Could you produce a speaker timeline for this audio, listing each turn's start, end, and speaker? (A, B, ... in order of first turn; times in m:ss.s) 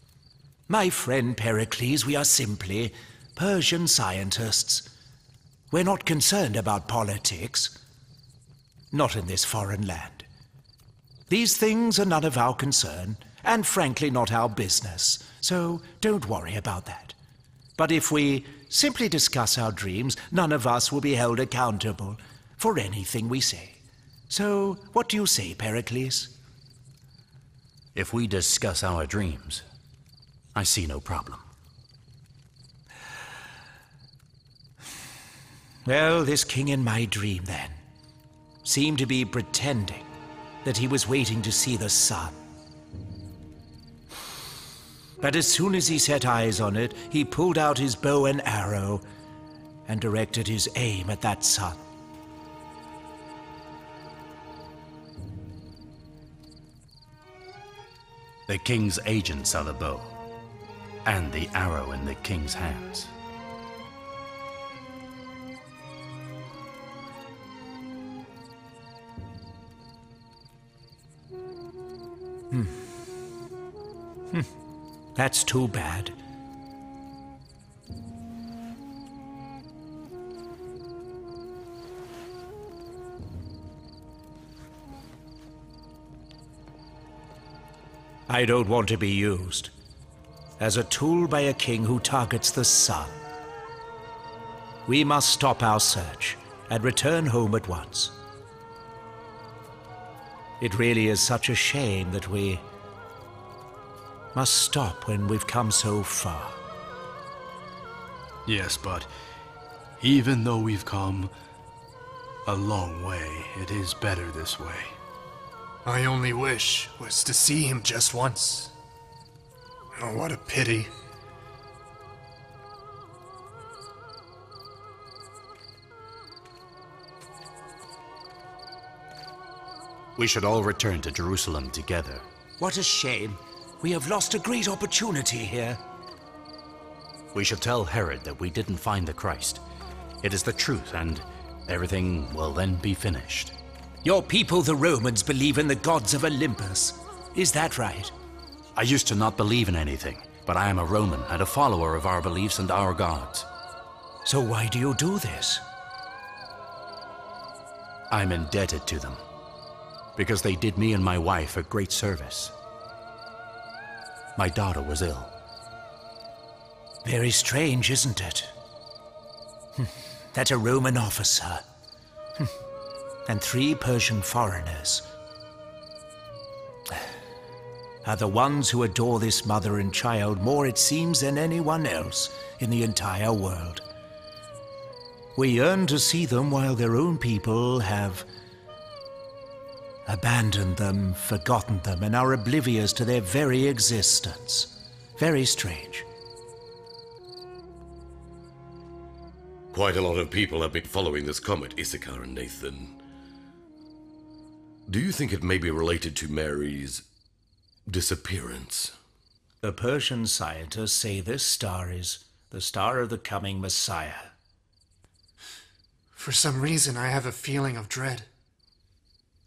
0:00.7-0:04.9 A
0:05.7-0:07.7 A
0:08.9-0:10.2 A
0:11.3-0:17.2 A
0:17.8-0:23.8 A
0:24.3-0:26.3 A
0:27.9-0:29.6 B
0:30.5-0:31.4 B
0:35.8-0:37.8 A
0:38.6-0:40.1 A
0:40.6-0:42.4 A
0:45.2-0:49.0 A
0:49.9-0:51.8 A
0:58.5-1:00.1 B
1:01.0-1:03.1 B
1:12.5-1:12.8 A
1:15.2-1:16.1 A
1:28.3-1:29.7 A
1:30.6-1:33.1 A
1:34.9-1:38.1 A
1:40.6-1:42.6 A
1:44.3-1:46.6 A
1:48.4-1:49.1 C
1:50.0-1:51.3 C
1:52.4-1:55.0 C
1:55.8-1:58.7 D
2:00.0-2:00.9 D
2:10.2-2:12.2 B
2:12.6-2:15.8 A
2:17.3-2:19.6 B
2:20.2-2:23.5 B
2:24.0-2:28.1 A
2:28.7-2:33.5 B
2:34.2-2:35.6 A
2:38.1-2:39.2 B
2:40.2-2:42.5 B
2:44.4-2:45.3 B
2:47.0-2:48.5 A
2:49.8-2:51.6 A
2:53.3-2:55.0 A
2:58.0-3:03.8 A
3:05.4-3:08.2 A
3:10.1-3:16.0 A
3:19.7-3:23.0 E
3:24.9-3:27.0 E
3:27.9-3:28.9 E
3:29.6-3:34.3 A
3:36.2-3:38.3 D